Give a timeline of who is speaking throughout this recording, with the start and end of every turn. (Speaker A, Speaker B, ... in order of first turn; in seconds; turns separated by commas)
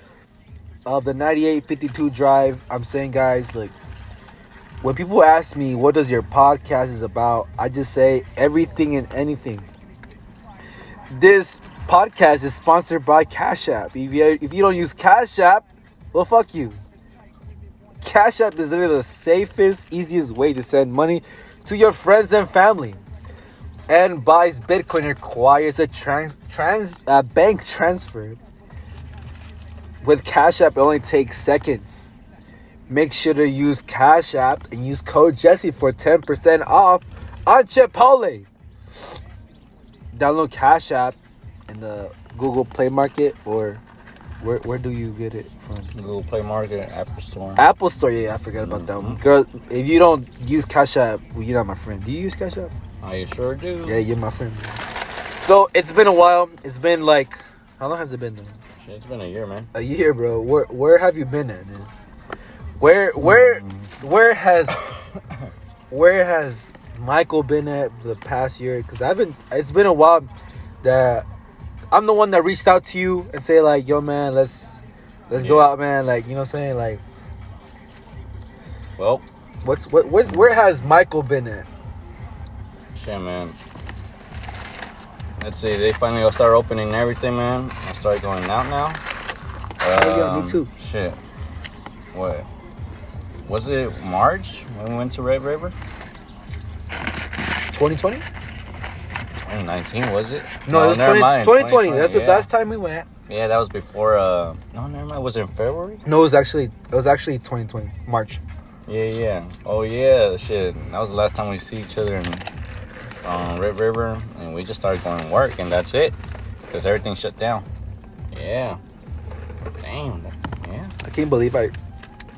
Speaker A: 0.8-3.7, Speaker A: 4.8-9.7, Speaker A: 11.1-16.8, Speaker A: 18.0-23.0, Speaker A: 23.9-28.4, Speaker A: 30.0-32.1, Speaker A: 32.9-39.2, Speaker A: 40.1-41.1, Speaker A: 41.7-43.8, Speaker A: 44.4-45.9, Speaker B: 45.9-47.7, Speaker A: 47.6-52.7, Speaker B: 48.6-49.2, Speaker B: 53.0-54.0, Speaker A: 53.8-54.8, Speaker A: 55.4-58.6, Speaker B: 58.8-59.7, Speaker A: 59.7-61.9, Speaker A: 62.8-64.8, Speaker B: 63.2-63.9, Speaker A: 65.9-70.3, Speaker A: 70.8-71.2, Speaker A: 71.9-77.0, Speaker B: 75.4-75.7, Speaker B: 79.0-79.2, Speaker A: 79.6-81.7, Speaker B: 82.9-83.6, Speaker B: 85.4-89.0, Speaker B: 89.8-91.2, Speaker A: 89.9-90.7, Speaker B: 92.1-92.5, Speaker B: 93.5-95.7, Speaker A: 97.7-98.2, Speaker B: 99.4-102.5, Speaker A: 100.6-103.0, Speaker B: 103.3-106.0, Speaker A: 106.0-108.4, Speaker B: 108.9-112.5, Speaker B: 113.2-116.2, Speaker B: 116.7-117.7, Speaker B: 118.3-118.8, Speaker B: 119.8-120.9, Speaker A: 121.0-121.7